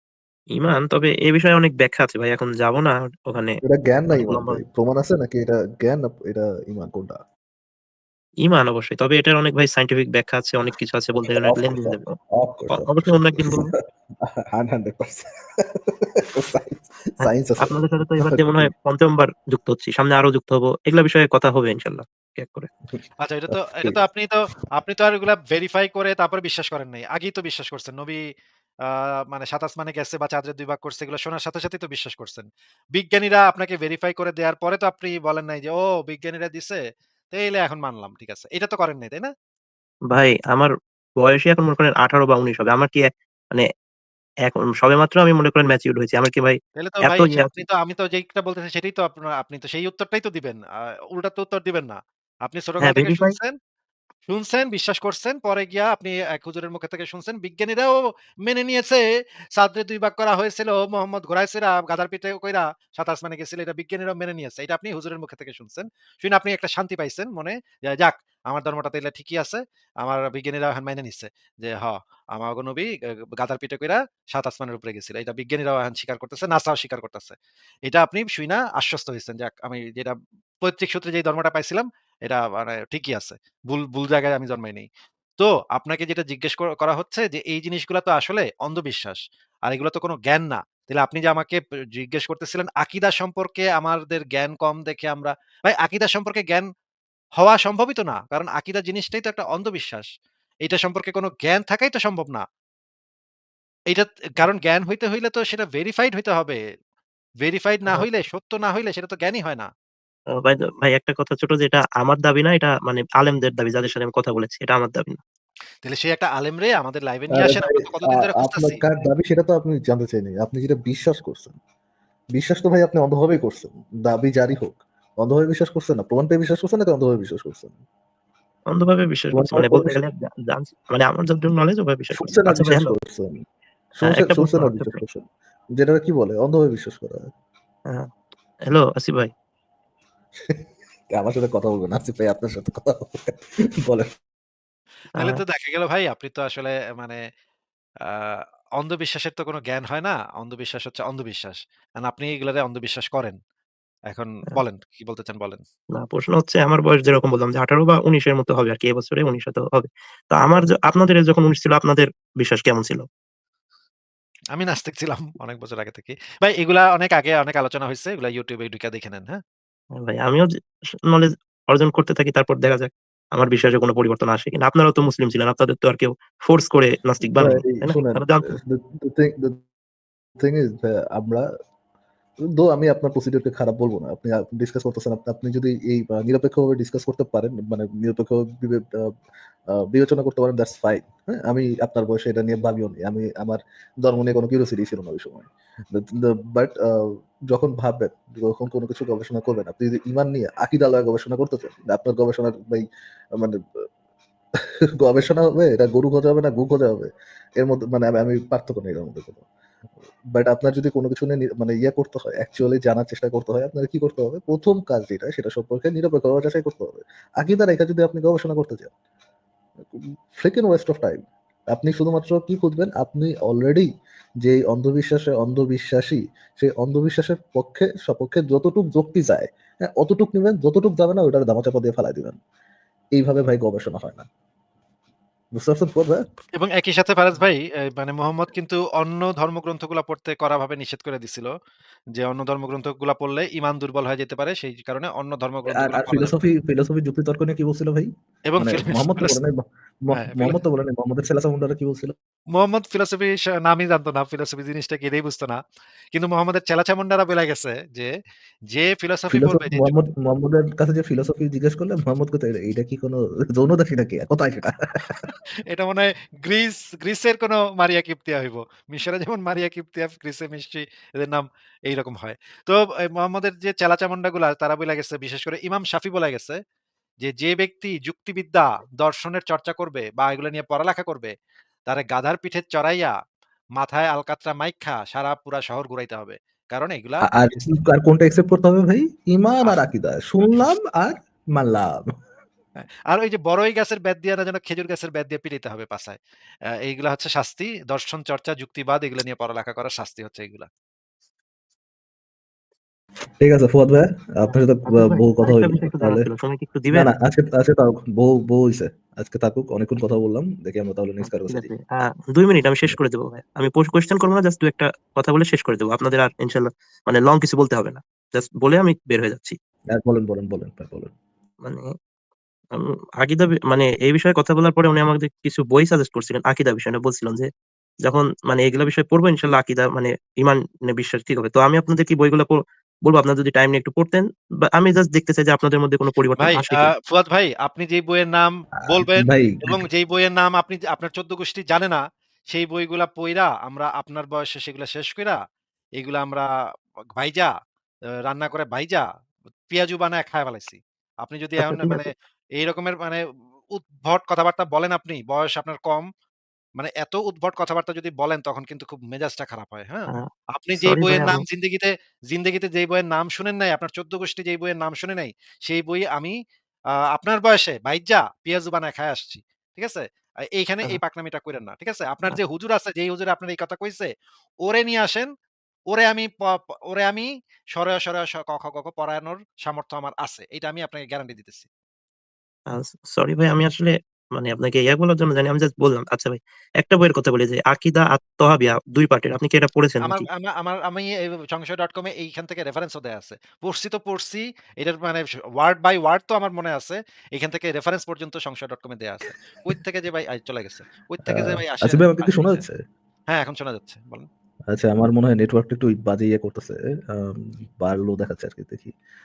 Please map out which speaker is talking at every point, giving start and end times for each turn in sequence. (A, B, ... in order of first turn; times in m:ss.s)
0:00.6-0:03.6 A
0:03.6-0:07.2 B
0:04.1-0:04.6 A
0:08.4-0:12.1 A
0:11.2-0:13.7 B
0:12.7-0:13.7 A
0:14.5-0:15.3 B
0:16.4-0:18.7 B
0:17.2-0:22.7 A
0:23.2-0:28.2 C
0:23.5-0:24.0 B
0:28.8-0:36.8 C
0:37.3-0:39.3 C
0:40.1-0:43.6 A
0:44.5-0:47.5 A
0:46.8-0:50.6 C
0:51.1-0:53.6 C
0:52.8-0:53.3 A
0:54.3-0:59.0 C
0:59.6-1:17.4 C
1:17.9-1:24.9 C
1:25.4-1:36.6 C
1:37.4-1:40.0 C
1:40.6-1:42.4 C
1:43.9-1:46.6 C
1:47.4-1:49.7 C
1:50.4-1:55.2 A
1:55.8-1:58.8 C
1:57.3-2:01.6 B
2:02.4-2:07.8 B
2:08.7-2:12.9 A
2:09.3-2:10.0 B
2:12.2-2:13.4 B
2:13.9-2:15.2 B
2:14.0-2:15.0 A
2:15.8-2:17.2 B
2:18.7-2:19.3 A
2:21.1-2:23.3 B
2:25.2-2:27.2 C
2:28.0-2:33.4 C
2:34.1-2:35.6 C
2:36.0-2:43.0 A
2:44.5-2:49.4 C
2:50.0-2:50.5 A
2:51.1-2:58.5 A
2:57.4-2:59.5 B
3:00.4-3:01.4 B
3:02.6-3:09.1 B
3:09.9-3:22.8 B
3:25.0-3:29.4 B
3:30.3-3:38.9 B
3:39.9-3:43.9 B
3:44.4-3:52.4 B
3:53.2-3:54.3 B
3:55.6-3:56.2 B
3:56.6-4:01.5 C
4:02.2-4:06.3 C
4:05.7-4:12.1 B
4:08.5-4:09.4 C
4:10.1-4:10.6 C
4:12.6-4:15.6 C
4:16.1-4:18.1 C
4:18.7-4:20.0 C
4:19.3-4:25.2 B
4:25.7-4:36.6 C
4:37.2-4:41.3 C
4:41.9-4:43.1 C
4:43.8-4:47.4 C
4:47.2-4:51.9 B
4:53.1-4:56.2 C
4:56.8-5:00.7 C
5:03.4-5:06.2 B
5:04.5-5:07.1 A
5:06.9-5:11.7 B
5:11.3-5:19.6 A
5:20.0-5:21.1 B
5:23.2-5:27.5 A
5:28.0-5:36.9 A
5:36.4-5:45.4 C
5:38.9-5:39.8 B
5:46.0-5:46.4 C
5:47.2-5:47.5 C
5:48.3-5:49.0 C
5:49.7-5:53.2 C
5:51.6-5:52.1 A
5:53.7-5:56.0 C
5:56.8-6:06.4 C
6:00.8-6:01.4 A
6:07.1-6:10.0 C
6:10.5-6:14.1 C
6:14.6-6:15.3 C
6:15.9-6:21.6 C
6:22.7-6:30.3 A
6:30.0-6:42.6 C
6:41.3-6:42.8 B
6:43.3-6:44.3 C
6:44.7-6:48.9 B